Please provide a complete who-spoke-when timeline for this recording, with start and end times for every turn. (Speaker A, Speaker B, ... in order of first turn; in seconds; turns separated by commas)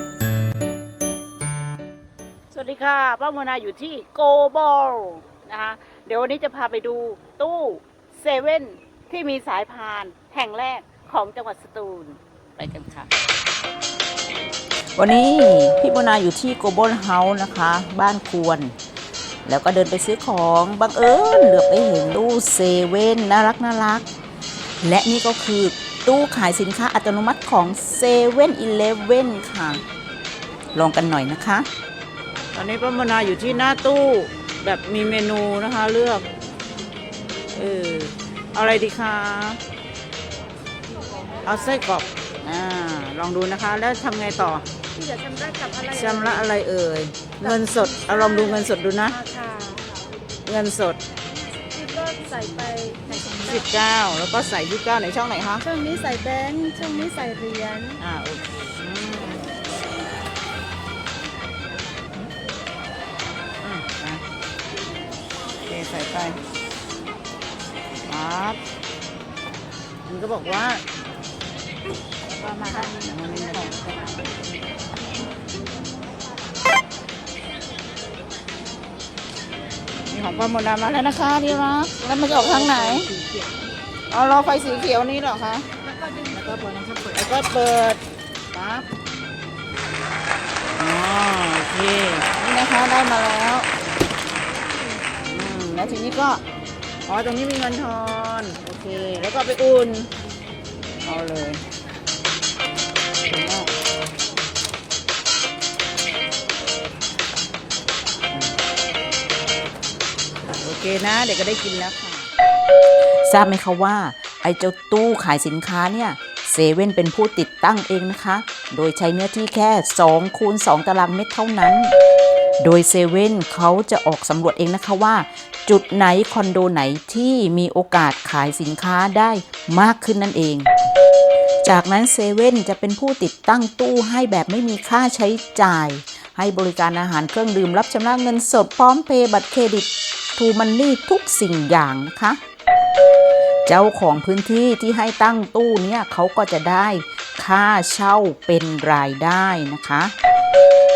Speaker A: 2.5-13.1, Speaker A: 15.0-18.7, Speaker A: 19.5-24.1, Speaker A: 24.8-29.8, Speaker A: 30.8-31.7, Speaker A: 32.5-36.3, Speaker A: 37.5-39.6, Speaker A: 41.4-44.7, Speaker B: 45.0-46.2, Speaker A: 45.9-49.2, Speaker B: 48.0-48.6, Speaker B: 49.2-49.8, Speaker A: 50.5-51.0, Speaker B: 51.7-53.4, Speaker A: 53.4-55.7, Speaker B: 55.7-58.0, Speaker A: 58.0-59.5, Speaker A: 63.6-64.2, Speaker A: 65.7-66.4, Speaker A: 68.1-68.6, Speaker A: 70.1-70.8, Speaker A: 72.3-74.4, Speaker A: 80.1-83.4, Speaker A: 84.1-85.7, Speaker A: 86.2-88.9, Speaker A: 90.8-93.7, Speaker A: 95.3-96.4, Speaker A: 97.1-100.1, Speaker A: 101.0-101.6, Speaker A: 103.3-103.7, Speaker A: 110.6-112.3, Speaker A: 113.1-121.9, Speaker A: 122.6-130.7, Speaker A: 131.6-142.4, Speaker A: 143.7-150.1